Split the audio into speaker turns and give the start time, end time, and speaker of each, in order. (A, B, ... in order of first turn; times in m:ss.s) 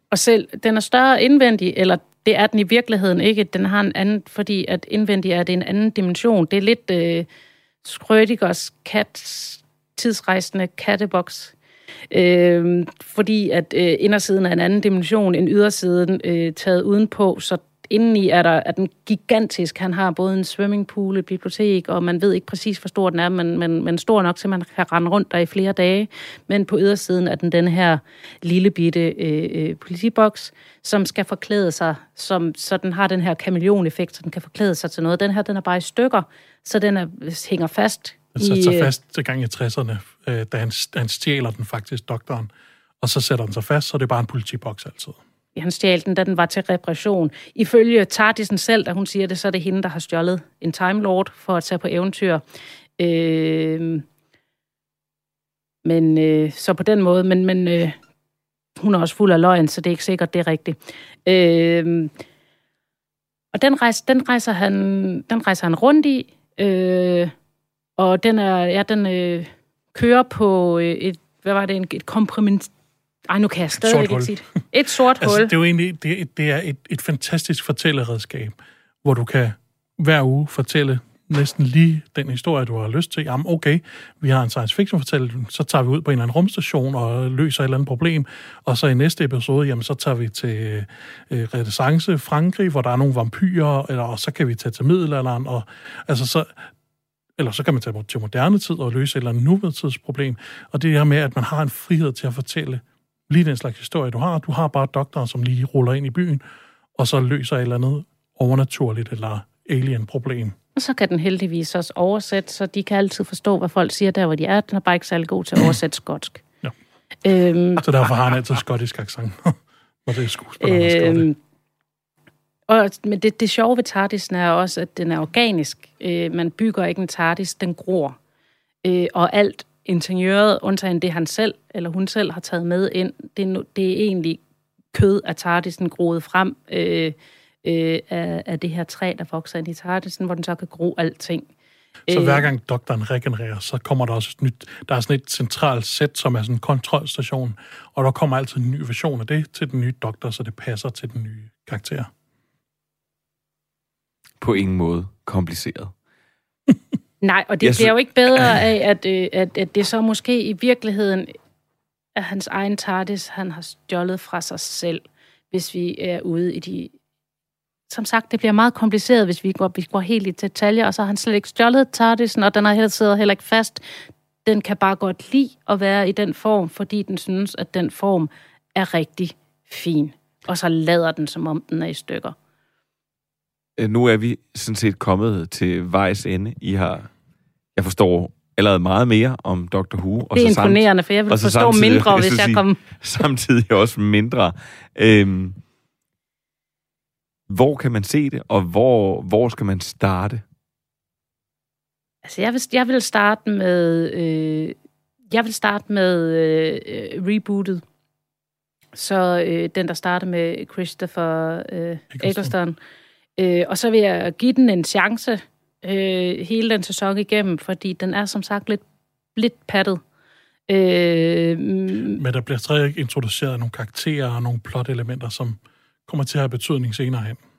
0:00.1-0:07.3 A
0:07.8-0:11.5 A
0:12.1-0:38.9 A
0:38.4-0:45.2 B
0:45.6-0:52.4 A
0:53.0-0:54.0 A
0:55.8-0:58.0 A
0:58.8-1:02.1 A
1:03.5-1:07.3 A
1:08.0-1:12.7 A
1:13.3-1:15.5 A
1:13.8-1:14.4 B
1:15.2-1:36.6 B
1:37.4-1:46.4 B
1:47.0-1:50.6 B
1:50.8-1:56.4 A
1:57.2-1:57.8 A
1:57.8-2:01.3 B
2:00.6-2:01.4 A
2:02.7-2:08.2 A
2:08.8-2:14.4 A
2:14.9-2:21.5 A
2:22.1-2:22.5 A
2:22.1-2:32.1 B
2:34.4-2:35.9 C
2:37.2-2:41.3 A
2:37.6-2:38.7 C
2:42.2-2:46.9 A
2:47.9-2:53.8 A
2:54.4-3:02.4 A
3:03.8-3:07.1 C
3:07.8-3:15.6 C
3:10.3-3:12.8 A
3:17.5-3:20.4 C
3:22.2-3:24.8 A
3:25.3-3:27.8 A
3:29.0-3:32.8 A
3:32.1-3:32.5 B
3:33.4-3:38.8 A
3:39.4-3:40.0 A
3:40.7-3:42.2 A
3:42.2-3:47.4 B